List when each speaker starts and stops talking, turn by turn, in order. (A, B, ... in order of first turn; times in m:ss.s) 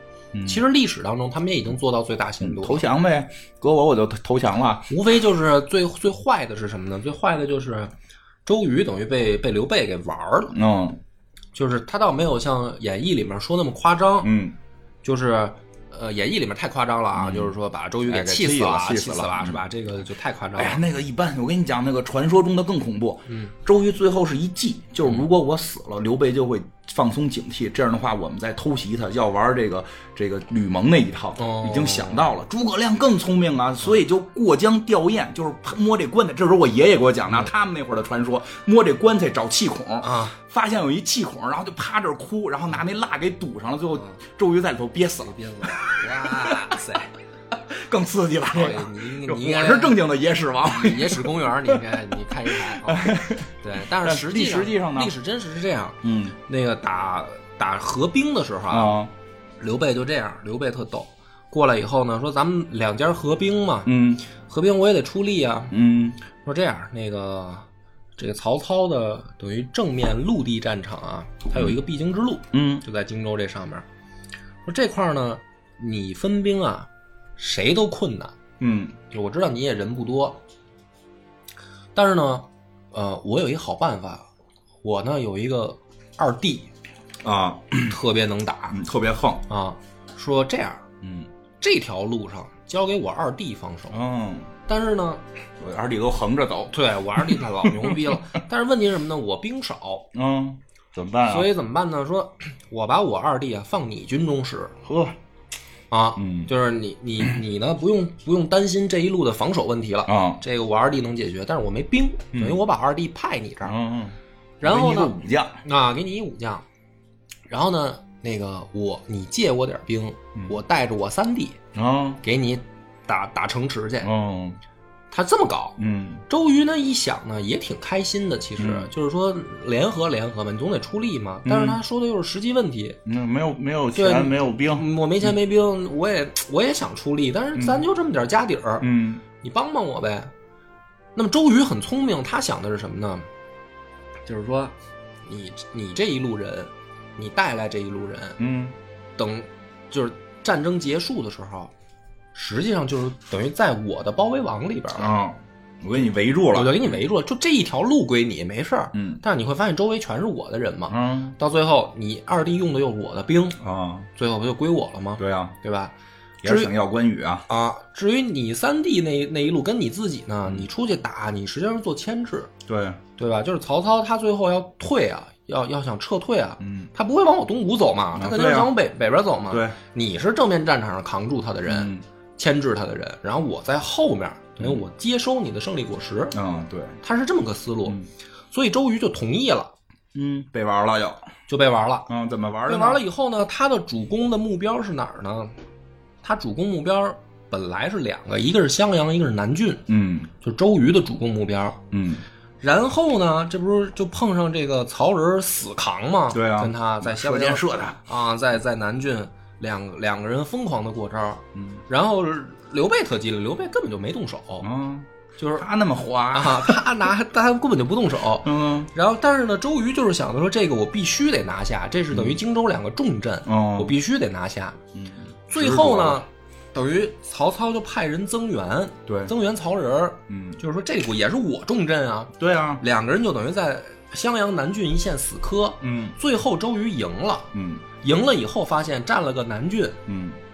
0:00.3-0:00.6 A
0:00.4-0:02.8 B
0:02.4-0:04.9 A
0:04.9-0:07.9 B
0:08.4-0:10.5 B
0:10.5-0:11.0 A
0:11.5-0:14.3 B
0:14.2-0:14.6 A
0:15.0-0:20.8 B
0:17.1-0:17.5 A
0:18.0-0:19.6 A
0:20.6-0:46.7 A
0:23.3-0:23.5 B
0:31.4-0:32.2 B
0:40.0-0:40.3 B
0:45.3-0:47.1 B
0:47.7-0:51.8 A
0:48.5-0:50.0 B
0:50.6-0:59.0 B
0:52.7-0:55.1 A
0:56.0-0:56.4 A
0:58.7-0:59.1 A
0:59.6-1:05.7 B
1:03.8-1:04.2 A
1:05.7-1:06.2 A
1:06.4-1:07.6 B
1:08.2-1:13.8 B
1:12.5-1:12.8 A
1:14.6-1:18.3 B
1:18.6-1:19.0 A
1:19.1-1:20.4 B
1:21.9-1:24.2 B
1:24.8-1:26.7 B
1:27.2-1:28.0 A
1:27.8-1:28.8 B
1:28.7-1:29.4 A
1:29.5-1:30.8 B
1:31.0-1:31.3 A
1:31.6-1:34.0 B
1:33.9-1:34.5 A
1:34.7-1:35.2 B
1:35.6-1:38.2 A
1:36.7-1:40.1 B
1:40.1-1:41.5 A
1:41.2-1:44.8 B
1:44.8-1:45.2 A
1:45.9-1:53.8 B
1:46.2-1:46.5 A
1:50.0-1:50.4 A
1:52.3-1:52.6 A
1:53.6-1:55.6 A
1:54.6-1:56.6 B
1:57.5-2:01.6 B
2:01.7-2:02.2 A
2:02.2-2:04.1 B
2:04.0-2:04.6 A
2:05.1-2:13.0 B
2:05.8-2:06.2 A
2:08.6-2:08.9 A
2:11.4-2:11.8 A
2:13.0-2:14.9 A
2:13.9-2:18.9 B
2:17.6-2:17.8 A
2:18.8-2:19.2 A
2:19.4-2:20.3 B
2:21.1-2:23.2 B
2:24.2-2:28.4 B
2:28.4-2:28.8 A
2:29.2-2:31.7 B
2:32.3-2:35.1 B
2:35.0-2:36.8 A
2:36.5-2:43.6 B
2:38.9-2:39.2 A
2:40.9-2:41.4 A
2:43.6-2:44.1 A
2:44.2-2:45.9 B
2:45.2-2:45.6 A
2:46.4-2:47.4 A
2:46.4-2:46.7 B
2:47.5-2:52.5 B
2:52.7-2:53.0 A
2:53.2-3:06.4 B
2:56.6-2:56.9 A
2:58.2-2:58.7 A
2:59.5-2:59.8 A
3:01.6-3:02.0 A
3:06.3-3:07.0 A
3:07.0-3:08.0 B
3:08.5-3:09.7 B
3:10.1-3:11.2 A
3:11.5-3:12.1 B
3:12.1-3:13.0 A
3:12.6-3:15.5 B
3:16.2-3:19.8 B
3:19.9-3:20.3 A
3:20.4-3:21.8 B
3:21.9-3:22.2 A
3:22.6-3:34.7 B
3:26.3-3:28.0 A
3:34.6-3:36.8 A
3:35.4-3:35.6 B
3:36.3-3:44.8 B
3:38.4-3:38.9 A
3:43.4-3:43.9 A
3:44.9-3:46.2 A
3:45.5-4:00.0 B
3:49.1-3:49.3 A
3:50.3-3:50.6 A
3:52.4-3:52.8 A
3:55.8-3:56.2 A
3:57.5-3:57.8 A
4:00.1-4:00.4 A